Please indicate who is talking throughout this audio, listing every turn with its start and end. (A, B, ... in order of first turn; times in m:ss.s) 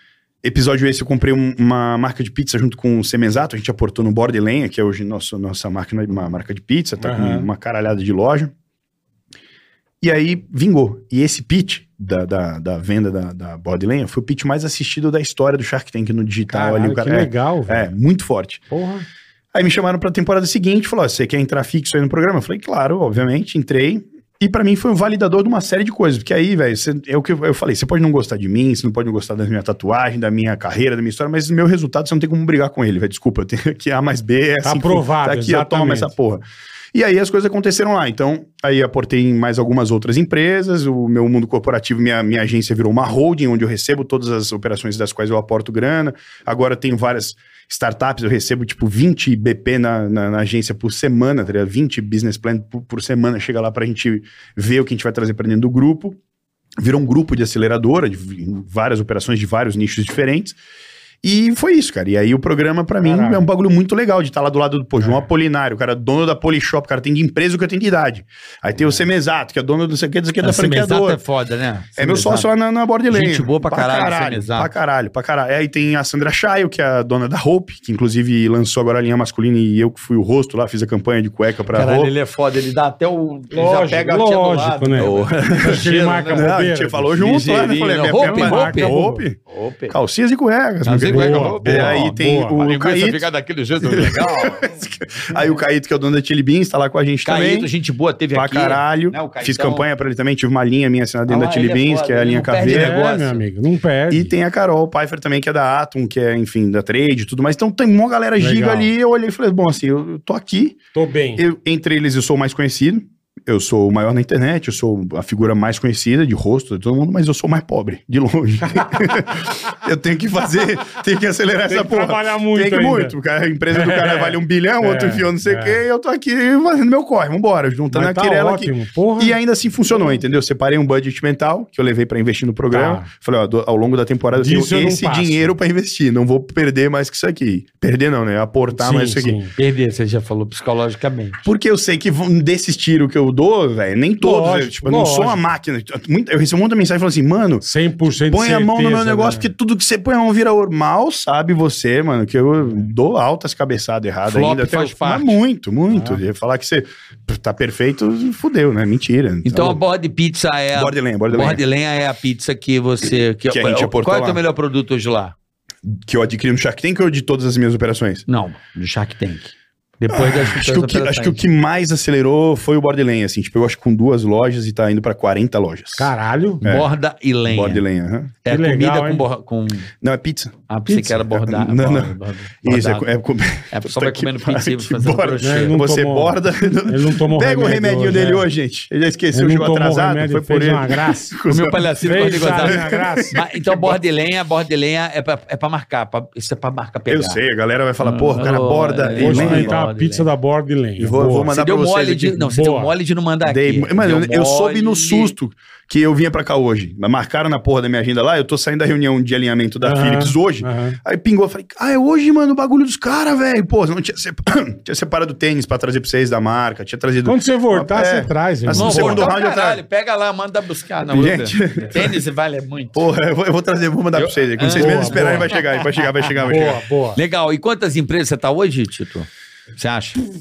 0:00.4-0:08.5 A
0:07.0-0:07.5 B
0:10.0-0:18.6 A
0:16.5-0:17.9 B
0:18.7-0:19.0 B
0:19.5-0:56.2 A
0:34.6-0:36.1 B
0:56.8-1:00.6 A
1:01.2-1:11.2 A
1:03.0-1:03.4 B
1:10.4-1:12.5 C
1:12.0-1:22.1 A
1:13.1-1:14.7 C
1:21.7-1:26.5 C
1:23.5-1:27.3 B
1:25.0-1:29.4 A
1:27.2-1:30.0 C
1:28.2-1:29.2 B
1:29.9-1:33.3 A
1:30.8-1:34.7 C
1:31.0-1:32.6 B
1:33.8-1:37.7 A
1:37.2-1:39.8 C
1:38.3-1:43.0 A
1:41.3-1:43.4 C
1:42.6-1:44.3 B
1:44.1-1:50.8 A
1:48.4-1:48.9 B
1:50.9-1:51.4 B
1:51.4-2:19.4 A
2:01.7-2:03.1 B
2:03.7-2:05.8 B
2:07.9-2:09.4 B
2:12.7-2:13.1 B
2:14.3-2:15.5 B
2:18.7-2:19.5 B
2:19.6-2:21.4 C
2:21.4-2:27.6 A
2:24.2-2:25.4 B
2:27.6-2:29.5 B
2:28.3-2:39.8 A
2:34.2-2:35.4 C
2:39.4-2:45.3 C
2:40.7-2:41.6 A
2:43.5-2:44.4 A
2:45.8-2:48.2 A
2:48.3-2:51.4 C
2:50.1-2:56.9 A
2:56.0-2:56.6 B
2:56.6-2:57.8 C
2:57.4-2:58.3 A
2:58.4-2:59.9 C
2:58.5-2:59.2 B
3:00.0-3:14.0 A
3:00.7-3:03.1 C
3:03.7-3:05.8 C
3:05.4-3:08.5 B
3:09.3-3:11.4 B
3:11.5-3:17.4 C
3:12.0-3:13.4 B
3:17.1-3:19.8 A
3:18.0-3:20.3 C
3:19.2-3:21.5 B
3:21.0-3:22.4 A
3:21.5-3:25.3 C
3:22.4-3:22.9 B
3:23.4-3:39.8 A
3:29.8-3:31.0 B
3:37.2-3:39.3 B
3:38.7-3:43.0 C
3:41.1-3:42.2 A
3:42.9-3:46.8 A
3:44.2-3:45.8 C
3:44.7-3:45.6 B
3:46.4-3:47.2 B
3:47.1-3:50.2 C